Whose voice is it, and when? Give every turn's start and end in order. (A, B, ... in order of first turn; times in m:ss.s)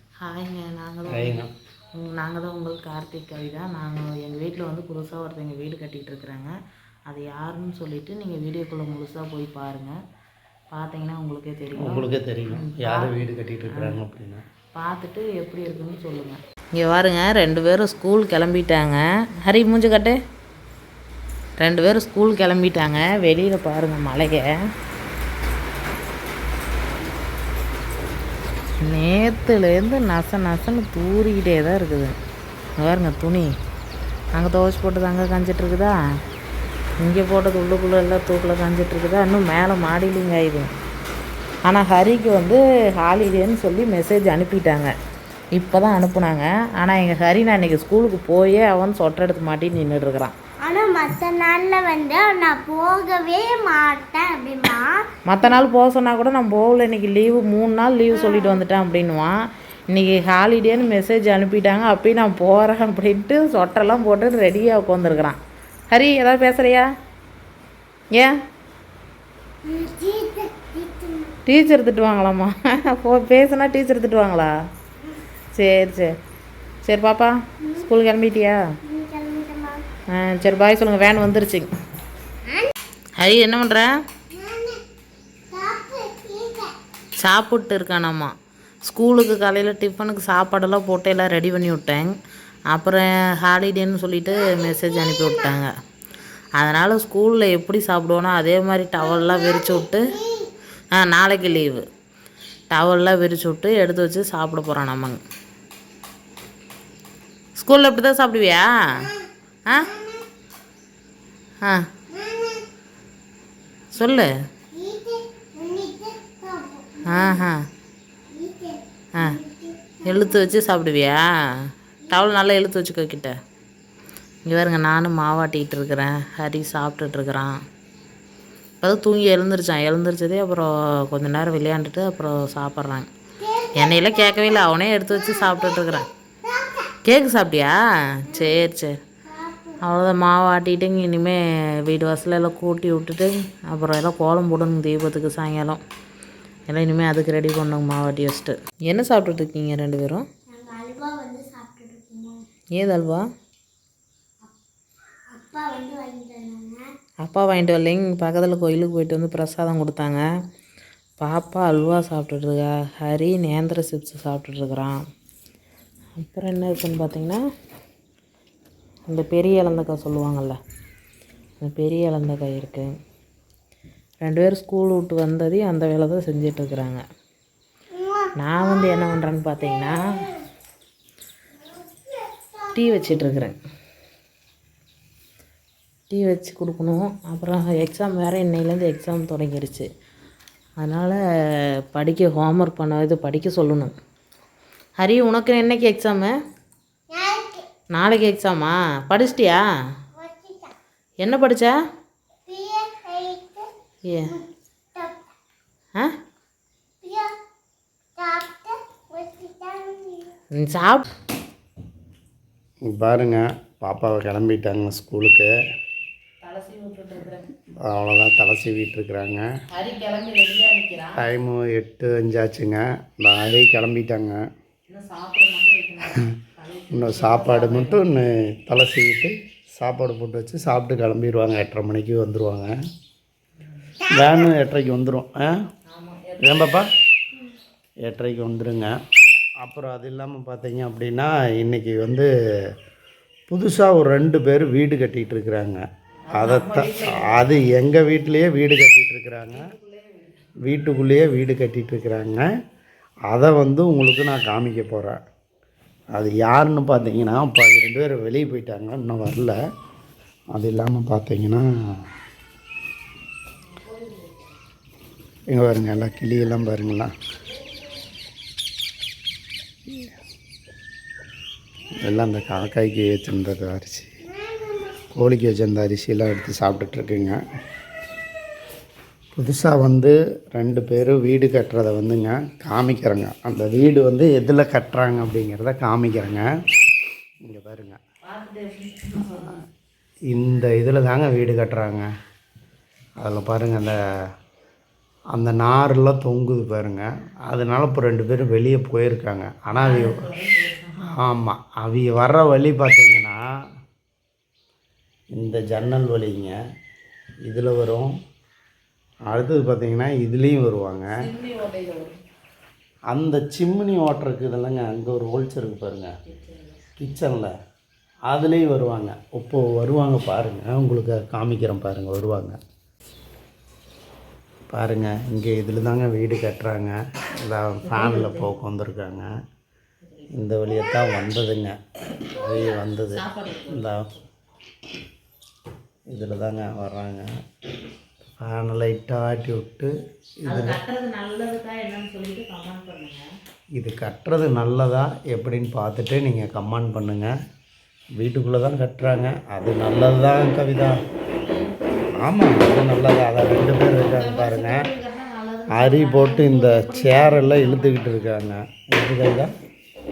0:00.2-0:01.4 A
0:01.1-0:01.5 B
0:02.0-0:06.5 A
0:07.1-0:09.9 A
0:10.7-0:14.0 A
0:11.8-0:14.4 B
0:14.8-0:20.2 A
0:21.6-0:24.5 A
0:28.8-0:32.1 A
0:32.8-0:33.5 A
0:34.3-0:36.0 A
0:37.0-0:40.7 A
0:41.6-0:44.9 A
0:45.5-0:50.3 A
0:50.6-0:55.1 C
0:55.2-0:59.3 A
0:58.2-0:58.6 C
0:59.9-1:05.4 A
1:05.9-1:06.9 A
1:09.6-1:11.3 C
1:11.5-1:14.5 A
1:15.5-1:16.1 A
1:16.8-1:18.6 A
1:18.8-1:19.8 C
1:20.1-1:21.7 A
1:23.2-1:23.9 A
1:24.3-1:24.8 C
1:25.5-1:26.8 C
1:27.2-1:28.3 A
1:28.8-1:32.1 A
1:32.7-1:35.7 A
1:36.6-1:40.1 A
1:39.2-1:40.5 C
1:40.9-1:41.8 A
1:42.7-1:45.2 A
1:47.6-1:49.1 A
1:49.6-1:49.9 A
1:52.1-1:52.7 C
1:53.9-1:54.3 A
1:54.7-1:57.4 C
1:57.0-1:57.6 A
1:58.3-2:00.2 C
1:59.2-1:59.4 A
2:00.0-2:01.3 A
2:02.1-2:03.3 A
2:04.4-2:07.6 A
2:08.8-2:13.1 A
2:13.4-2:14.4 C
2:13.7-2:16.1 A
2:16.5-2:16.9 C
2:17.0-2:18.9 A
2:18.3-2:18.6 C
2:19.2-2:19.8 C
2:19.8-2:25.8 A
2:26.7-2:30.2 A
2:30.5-2:32.4 C
2:32.8-2:33.2 A
2:35.3-2:36.9 C
2:37.2-2:40.2 A
2:41.2-2:45.0 A
2:46.2-2:47.4 A
2:49.1-2:50.6 A
2:51.6-2:52.9 A
2:54.2-2:57.0 A
2:58.0-2:58.3 C
2:58.4-3:00.0 A
3:01.7-3:02.7 C
3:02.7-3:03.6 A
3:06.1-3:09.9 A
3:10.8-3:11.2 A
3:11.9-3:13.9 A
3:15.0-3:16.3 A
3:17.1-3:17.7 C
3:17.9-3:19.6 A
3:20.2-3:20.7 C
3:21.2-3:21.8 A
3:22.5-3:23.7 C
3:24.0-3:24.4 A
3:24.9-3:25.3 C
3:27.0-3:27.4 C
3:28.2-3:30.3 C
3:30.5-3:31.0 A
3:32.9-3:35.5 B
3:36.4-3:37.5 A
3:37.8-3:39.4 B
3:39.7-3:41.2 A
3:41.2-3:44.4 B
3:44.9-3:48.0 A
3:46.9-3:52.7 B
3:54.1-3:55.5 B
3:55.9-3:56.7 A
3:56.4-3:56.9 B
3:58.0-3:58.9 B
3:59.6-4:02.3 B
4:03.5-4:05.8 B
4:06.3-4:07.8 A
4:06.3-4:09.6 B
4:09.5-4:10.4 A
4:10.6-4:12.4 B
4:13.3-4:15.2 B
4:16.1-4:19.6 B
4:20.5-4:21.7 B
4:23.8-4:24.4 A
4:25.5-4:27.1 B
4:32.0-4:34.1 B
4:34.3-4:35.0 C
4:35.1-4:37.4 B
4:39.3-4:46.4 B
4:47.5-4:48.0 B
4:48.2-4:49.6 A
4:50.3-4:52.0 B
4:53.2-4:54.0 B
4:55.3-5:00.2 B
4:59.7-5:01.2 A
5:01.1-5:03.4 B
5:05.4-5:06.6 B
5:07.5-5:08.2 B
5:09.3-5:11.1 B
5:11.2-5:12.2 A
5:13.1-5:16.1 B
5:16.3-5:16.8 A
5:17.0-5:17.5 B
5:18.3-5:22.6 B
5:24.7-5:29.3 B
5:27.8-5:28.6 A
5:30.0-5:30.4 A
5:30.3-5:31.7 B
5:32.3-5:34.1 B
5:33.1-5:34.2 A
5:36.1-5:37.3 B
5:38.4-5:39.9 B
5:40.5-5:40.8 B
5:40.5-5:43.3 A
5:43.8-5:47.3 B
5:48.2-5:51.0 B
5:51.4-5:52.0 A
5:52.2-5:54.8 B
5:53.9-5:58.3 A
5:55.7-5:59.5 B